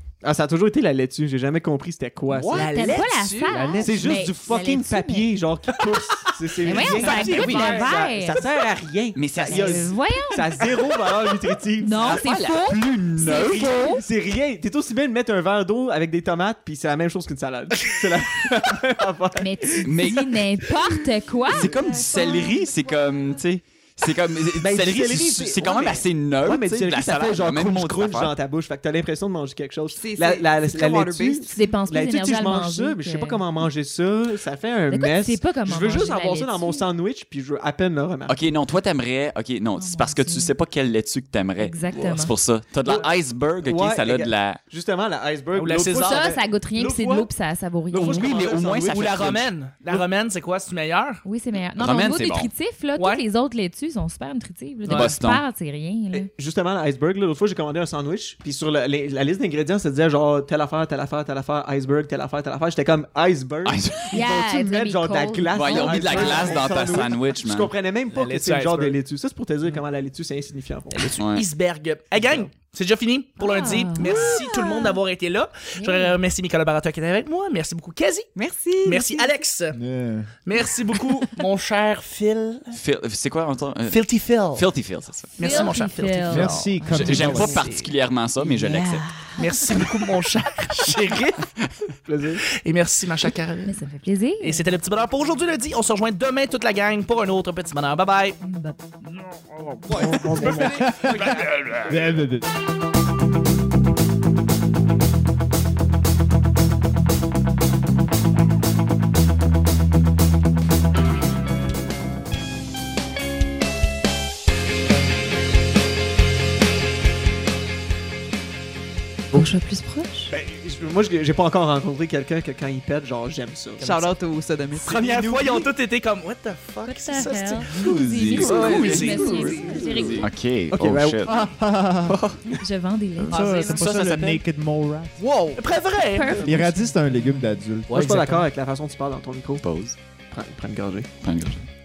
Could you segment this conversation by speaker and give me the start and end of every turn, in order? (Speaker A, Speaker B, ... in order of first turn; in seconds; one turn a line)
Speaker A: 0.2-12.4
Speaker B: 2.4-3.8
Speaker C: 2.5-5.3
Speaker D: 3.6-3.9
Speaker C: 6.6-8.4
Speaker B: 6.7-8.4
Speaker E: 9.2-9.9
Speaker C: 9.4-10.6
Speaker C: 11.8-14.0
Speaker E: 12.0-13.8
Speaker A: 13.5-19.9
Speaker C: 19.4-22.7
Speaker E: 19.8-20.4
Speaker A: 21.5-22.3
Speaker E: 21.5-28.3
Speaker A: 24.6-38.4
Speaker F: 30.0-31.7
Speaker C: 31.5-33.4
Speaker C: 34.9-36.9
Speaker E: 38.3-44.6
Speaker C: 39.8-40.5
Speaker C: 41.6-42.3
Speaker A: 42.8-47.3
Speaker B: 45.5-46.3
Speaker C: 46.0-48.3
Speaker A: 47.9-49.2
Speaker E: 47.9-49.5
Speaker B: 48.4-51.2
Speaker C: 51.2-56.3
Speaker E: 51.8-52.5
Speaker B: 53.0-53.2
Speaker B: 54.9-55.1
Speaker E: 54.9-55.5
Speaker A: 56.1-71.2
Speaker E: 63.6-64.2
Speaker C: 64.1-66.7
Speaker E: 65.5-67.7
Speaker B: 68.1-69.0
Speaker B: 70.9-78.3
Speaker E: 71.2-71.5
Speaker A: 72.1-72.5
Speaker C: 73.4-75.0
Speaker F: 74.0-74.3
Speaker C: 75.8-76.2
Speaker F: 78.4-79.4
Speaker B: 78.8-79.8
Speaker D: 79.7-80.3
Speaker B: 80.5-82.8
Speaker E: 82.7-85.8
Speaker B: 83.9-84.7
Speaker B: 85.3-87.9
Speaker C: 85.4-87.6
Speaker D: 86.3-87.6
Speaker E: 86.9-89.1
Speaker C: 88.4-90.0
Speaker B: 89.4-91.5
Speaker A: 92.1-92.4
Speaker B: 92.6-93.8
Speaker C: 93.7-94.7
Speaker B: 94.4-98.4
Speaker C: 98.4-98.8
Speaker B: 99.9-102.1
Speaker D: 99.9-102.5
Speaker A: 100.0-100.9
Speaker C: 119.3-120.3
Speaker A: 120.3-123.9
Speaker B: 123.8-124.1
Speaker F: 123.8-125.7
Speaker B: 124.7-127.8
Speaker C: 126.8-130.3
Speaker E: 127.7-131.4
Speaker F: 128.3-130.1
Speaker B: 128.4-129.5
Speaker A: 128.5-129.0
Speaker A: 129.6-131.3
Speaker D: 131.2-132.3
Speaker E: 132.1-132.6
Speaker C: 132.5-133.8
Speaker E: 133.2-134.4
Speaker D: 133.3-135.2
Speaker F: 135.2-135.6
Speaker B: 135.6-136.5
Speaker C: 136.1-137.6
Speaker D: 136.4-138.4
Speaker B: 137.9-138.2
Speaker A: 137.9-139.7
Speaker E: 139.6-140.0
Speaker A: 140.3-141.1
Speaker E: 141.2-141.6